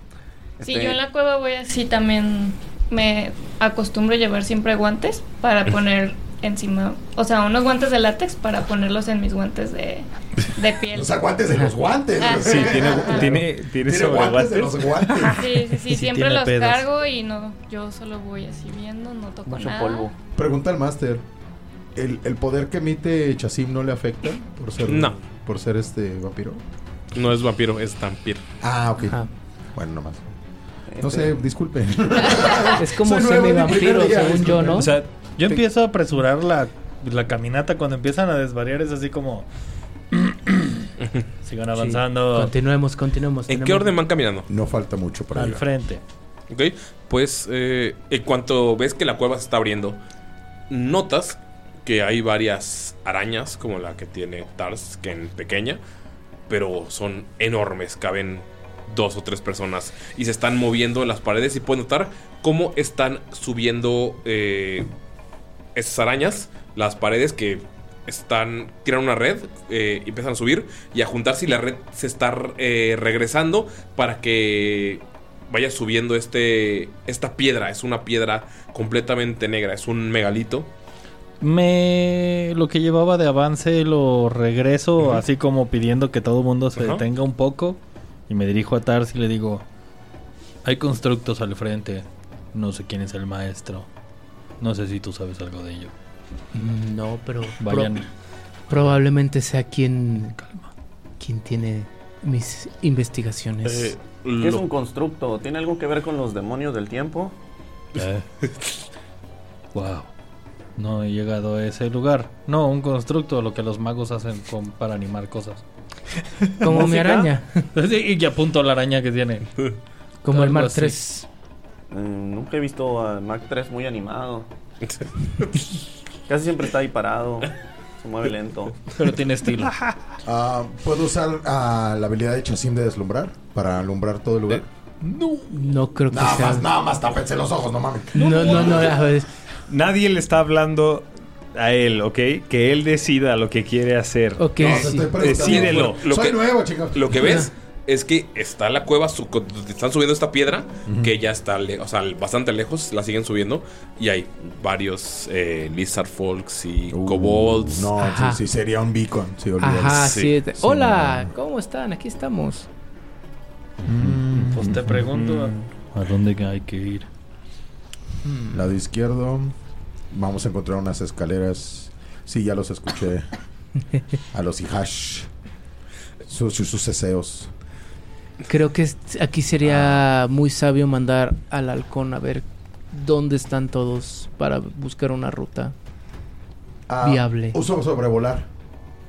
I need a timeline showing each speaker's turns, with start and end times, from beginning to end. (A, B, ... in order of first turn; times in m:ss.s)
0:00.6-0:01.0 A
0:00.6-0:11.2 B
0:10.9-0:15.4 C
0:12.2-0:13.4 B
0:12.4-0:15.0 D
0:15.3-0:20.1 B
0:15.8-0:16.9 E
0:19.4-0:20.1 A
0:20.3-0:21.2 C
0:22.0-0:26.6 C
0:24.8-0:25.2 F
0:27.1-0:28.4 F
0:28.6-0:29.2 C
0:29.7-0:30.3 C
0:30.9-0:31.3 A
0:31.0-0:34.9 C
0:32.6-0:34.9 G
0:34.8-0:35.6 D
0:35.4-0:39.5 E
0:40.1-0:40.9 E
0:41.0-0:41.3 F
0:41.4-0:42.5 E
0:41.7-0:43.9 G
0:43.5-0:44.5 F
0:44.5-0:45.6 C
0:45.3-0:46.0 E
0:46.5-0:50.0 F
0:50.7-0:55.8 F
0:56.5-1:04.9 F
1:05.7-1:20.7 F
1:21.4-1:29.6 E
1:26.8-1:27.0 F
1:30.6-1:33.9 E
1:34.6-1:35.9 E
1:36.5-1:38.0 G
1:37.6-1:38.0 E
1:38.7-1:40.4 G
1:40.3-1:40.7 E
1:41.2-1:43.9 G
1:43.6-1:44.6 F
1:44.4-1:47.3 A
1:48.0-1:48.2 E
1:49.7-1:50.1 E
1:50.8-1:55.6 E
1:56.4-1:56.9 E
1:56.6-1:57.6 G
1:56.7-1:57.3 A
1:57.7-1:59.5 E
2:00.2-2:01.2 G
2:00.3-2:01.0 E
2:01.9-2:04.5 A
2:04.9-2:05.6 F
2:06.3-2:08.8 A
2:08.9-2:09.9 E
2:10.2-2:14.6 C
2:15.0-2:15.5 E
2:15.5-2:16.7 G
2:16.1-2:19.0 C
2:18.1-2:19.3 G
2:19.7-2:26.0 D
2:24.4-2:25.1 G
2:24.6-2:27.4 C
2:25.2-2:37.9 F
2:27.2-2:27.4 G
2:36.9-2:41.3 C
2:38.0-2:38.4 G
2:39.6-2:42.7 G
2:40.0-2:40.3 F
2:43.8-2:45.6 D
2:43.9-2:47.1 E
2:48.2-2:48.5 G
2:48.5-2:49.5 C
2:50.1-2:53.3 C
2:54.3-2:55.3 C
2:56.2-2:57.5 C
2:58.5-3:05.7 G
3:06.9-3:08.5 C
3:07.0-3:07.6 G